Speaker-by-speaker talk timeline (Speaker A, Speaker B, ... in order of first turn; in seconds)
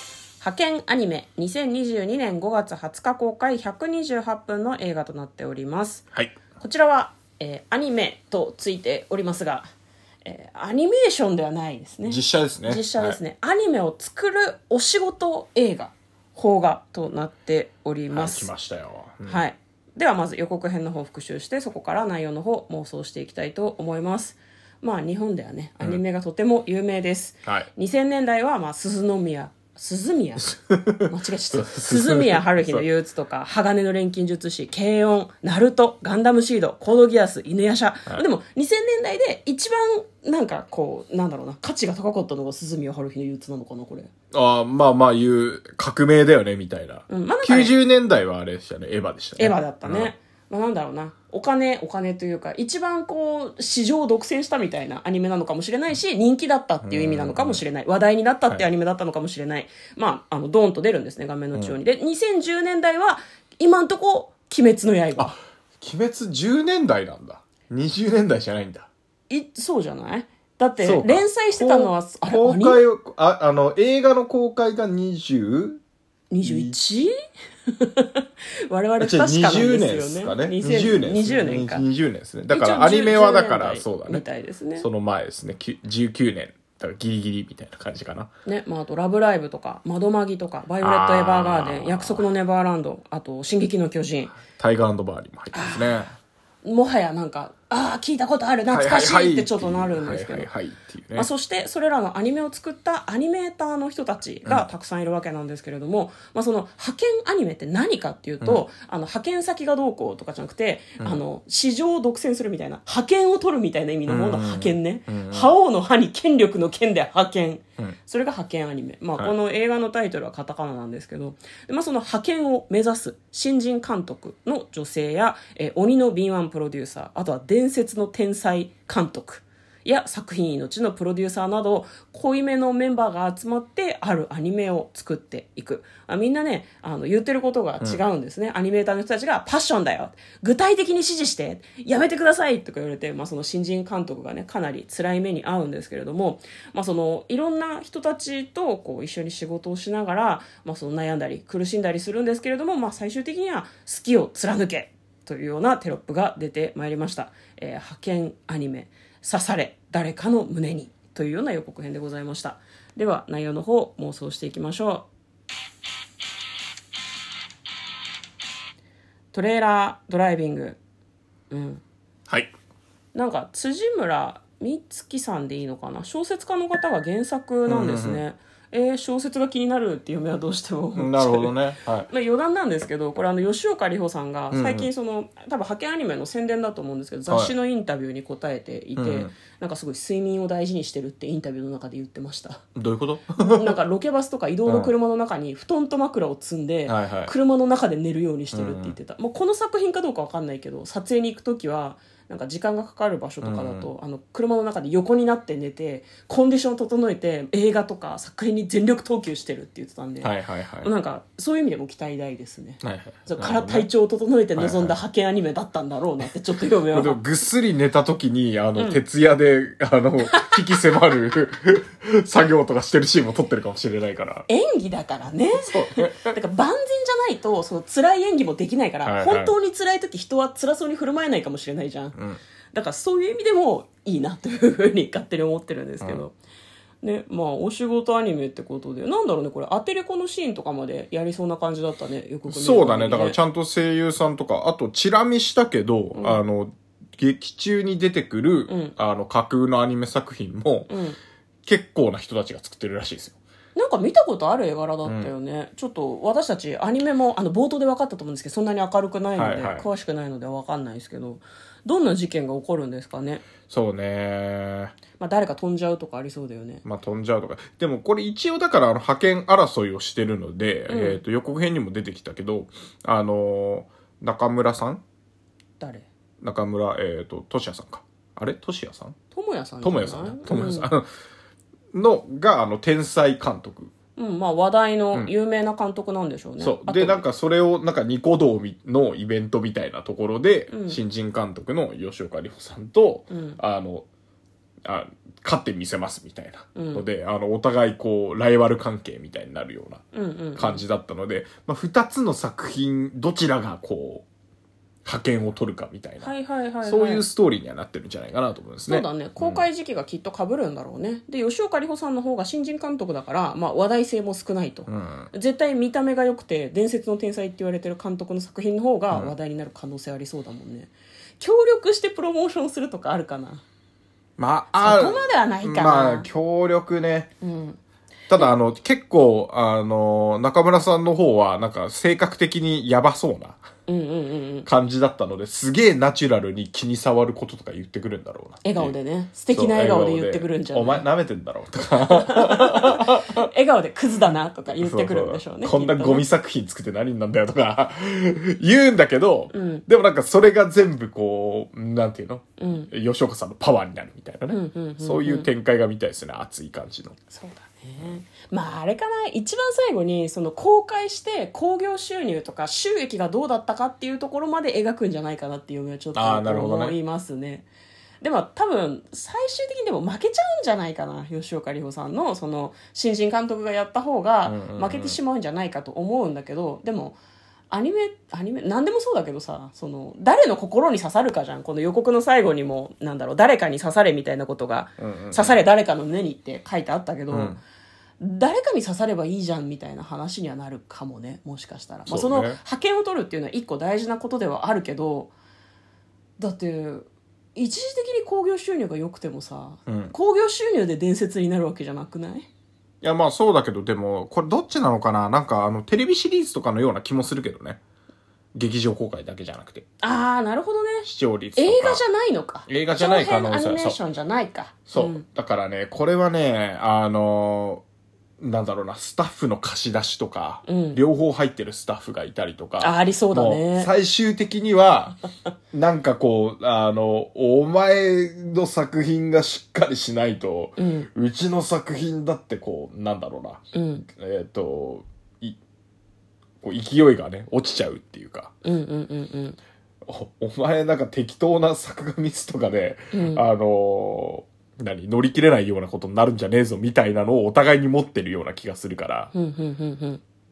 Speaker A: 0.4-9.7, 10.2-18.5, 19.2-44.1, 47.1-47.7, 49.4-65.3, 69.3-72.8, 76.3-77.1, 77.7-81.8, 82.5-84.9, 88.5-94.4, 95.5-96.0, 96.6-100.5, 101.1-165.1, 169.3-170.8, 171.5-171.8, 173.1-192.7, 193.4-217.2, 218.8-219.0, 224.5-232.2, 232.7-236.3, 237.0-243.4, 246.2-246.4, 248.7-248.9, 250.9-251.2, 253.8-263.5, 265.2-266.8, 270.9-271.2, 275.8-276.1, 279.3-280.9, 284.2-287.2, 290.7-291.0, 293.3-293.6, 296.8-297.1, 300.1-300.8, 306.2-307.2, 308.9-323.6, 324.8-326.3, 327.4-327.8, 333.9-334.7, 338.6-341.1, 342.0-346.3, 349.5-349.9, 352.6-352.9, 354.5-355.5, 357.3-367.7, 368.2-377.2, 377.7-387.6, 388.2-395.3, 396.4-402.5, 410.0-415.2, 420.7-421.0, 422.8-423.9, 430.8-431.1, 433.7-434.1, 438.6-439.6, 443.1-443.4, 449.3-450.2
Speaker B: 12.0-13.2, 18.1-19.4, 30.4-32.9, 44.3-50.1, 56.8-57.6, 65.2-68.9, 70.8-75.8, 76.4-76.8, 79.0-84.2, 84.8-88.3, 90.8-92.3, 94.5-96.1, 98.7-101.3, 114.1-115.5, 172.3-172.5, 177.7-178.2, 180.9-182.1, 184.5-184.9, 187.3-187.5, 188.9-189.3, 192.8-193.8, 194.7-194.9, 196.8-197.3, 198.5-198.9, 203.4-203.9, 210.2-210.9, 212.8-213.9, 214.6-215.0, 216.9-224.5, 225.7-226.3, 229.0-229.5, 232.2-232.4, 242.5-250.9, 251.7-253.4, 255.0-255.3, 259.4-259.9, 263.7-264.9, 266.8-275.0, 276.4-279.2, 279.8-281.1, 281.9-283.9, 286.6-294.1, 294.9-300.0, 300.6-304.2, 305.1-306.3, 306.8-309.6, 314.9-315.3, 324.4-327.3, 328.3-333.6, 334.7-338.9, 339.5-343.5, 344.7-357.2, 366.1-367.0, 374.4-375.2, 385.0-385.6, 387.3-387.6, 392.1-392.6, 399.9-400.1, 403.0-407.8, 408.6-409.9, 411.0-412.0, 412.7-414.0, 414.9-417.8, 418.4-425.2, 425.7-435.6, 436.6-438.6, 440.1-449.3